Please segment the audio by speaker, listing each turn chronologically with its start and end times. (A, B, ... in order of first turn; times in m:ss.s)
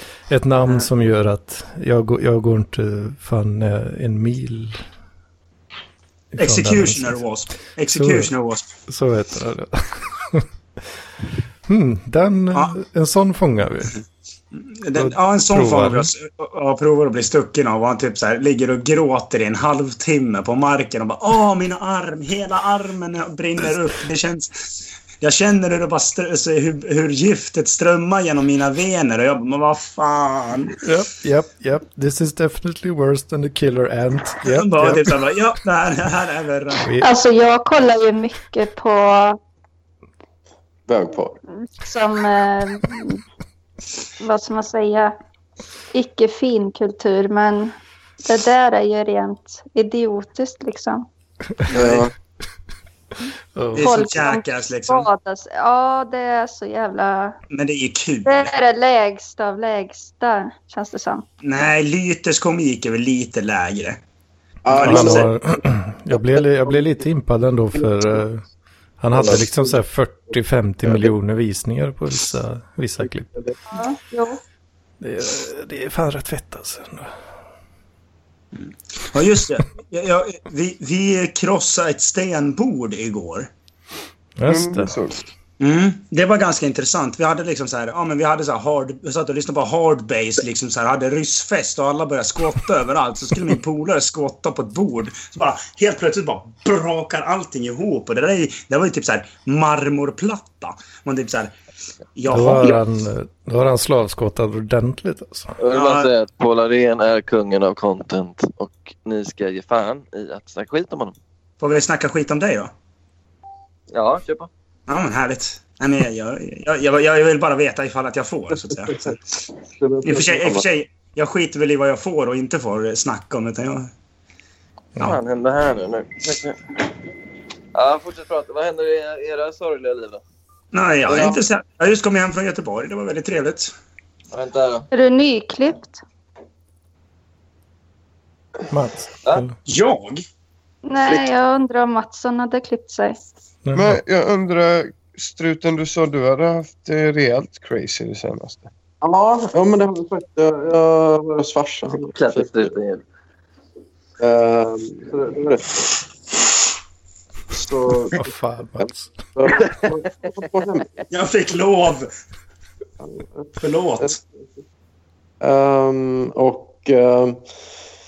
0:00.3-0:04.8 A
0:00.6-0:00.9 B
0:06.3-0:07.2 A
0:06.4-0:08.6 B
0:07.9-0:08.3 A
0:08.9-0:10.4 A
0:11.7-0:14.0 A
0:14.8-0:24.6 B
0:15.0-0:16.1 A
0:25.2-0:30.8 B
0:30.8-0:35.1 A
0:34.4-0:36.8 B
0:36.8-0:37.1 A
0:37.0-0:39.4 C
0:40.9-0:41.4 D
0:41.7-0:43.2 C
0:44.2-0:45.1 C
0:45.9-0:47.7 C
0:48.2-0:51.0 C
0:51.7-0:52.1 B
0:51.7-0:52.1 D
0:53.6-0:54.2 A
0:53.7-0:55.1 B
0:53.8-0:57.4 C
0:57.5-0:58.5 B
0:58.2-1:01.2 C
1:01.4-1:04.0 B
1:04.6-1:05.3 D
1:04.7-1:05.3 B
1:04.8-1:08.4 A
1:09.0-1:13.3 A
1:09.1-1:09.7 D
1:13.7-1:14.4 C
1:15.0-1:17.1 A
1:18.6-1:23.5 B
1:24.4-1:24.9 A
1:24.4-1:25.2 E
1:25.6-1:41.5 B
1:42.2-1:42.8 B
1:42.3-1:45.5 A
1:45.6-1:51.1 F
1:45.7-1:46.1 B
1:51.6-1:52.7 B
1:53.9-1:54.5 F
1:54.9-1:59.2 B
2:00.0-2:03.9 B
2:00.3-2:00.6 D
2:05.0-2:06.6 F
2:07.7-2:10.2 F
2:10.7-2:13.7 B
2:11.1-2:11.4 F
2:14.3-2:14.9 F
2:14.9-2:16.0 C
2:18.7-2:19.5 A
2:19.6-2:20.2 B
2:20.8-2:23.2 C
2:23.6-2:24.0 A
2:23.7-2:28.7 E
2:29.0-2:32.7 D
2:31.9-2:33.0 F
2:34.2-2:35.9 D
2:37.5-2:38.2 D
2:38.1-2:39.2 A
2:38.8-2:41.0 D
2:39.5-2:40.0 F
2:41.1-2:42.1 B
2:43.0-2:43.5 D
2:43.6-2:44.2 B
2:45.4-2:47.4 D